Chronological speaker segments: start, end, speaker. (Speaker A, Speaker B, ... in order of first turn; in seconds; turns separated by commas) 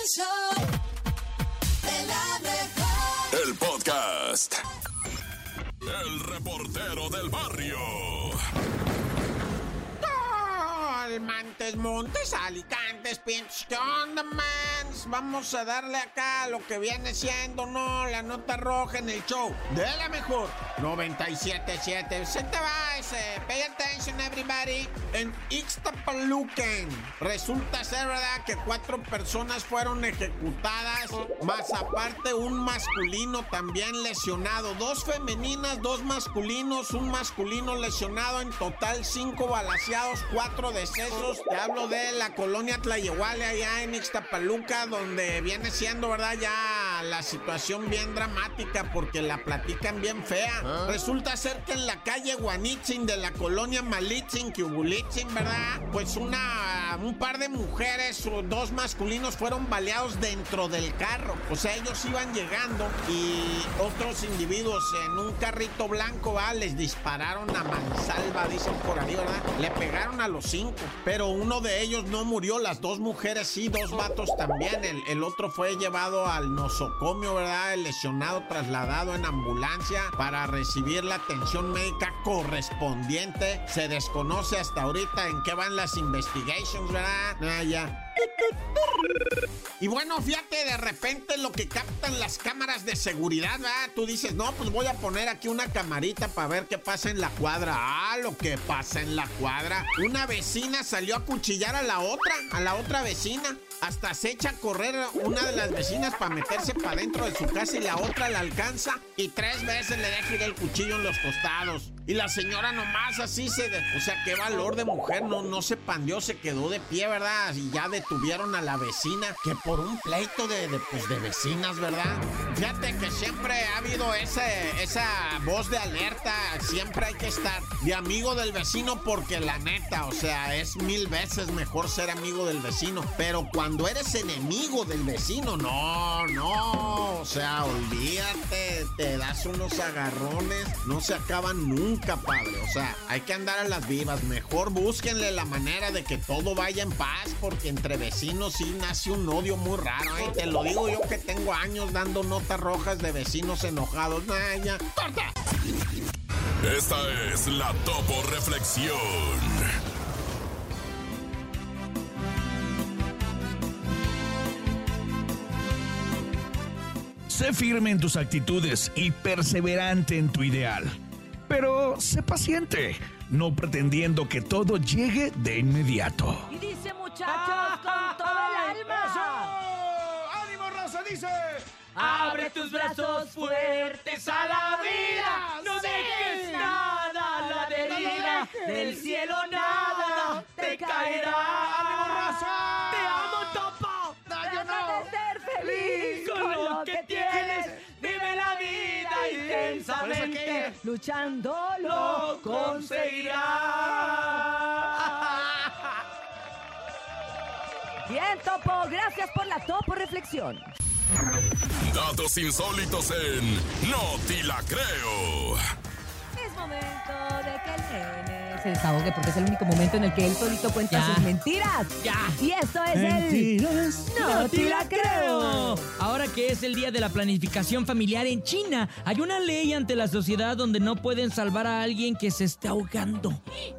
Speaker A: 3.3-4.6, Speaker A: 5.9-8.4, Speaker B: 10.0-88.1, Speaker B: 89.8-155.3, Speaker A: 156.6-159.6, Speaker C: 167.3-170.9, Speaker C: 171.5-176.5, Speaker D: 176.5-179.6, Speaker E: 177.2-179.4, Speaker C: 179.5-181.6, Speaker D: 181.9-185.4, Speaker E: 181.9-192.3, Speaker C: 184.9-186.8, Speaker C: 187.7-189.0, Speaker D: 187.7-192.4, Speaker C: 189.7-190.4, Speaker C: 191.6-193.6, Speaker E: 192.9-194.2, Speaker C: 194.2-195.1, Speaker D: 194.4-203.4, Speaker E: 195.7-200.7, Speaker C: 200.0-200.7, Speaker C: 202.0-203.9, Speaker E: 202.5-204.5, Speaker D: 208.1-210.7, Speaker A: 211.8-215.6, Speaker D: 216.3-223.5, Speaker E: 220.9-221.3, Speaker E: 222.0-222.4, Speaker C: 222.9-224.0, Speaker D: 224.1-225.8, Speaker E: 224.2-233.4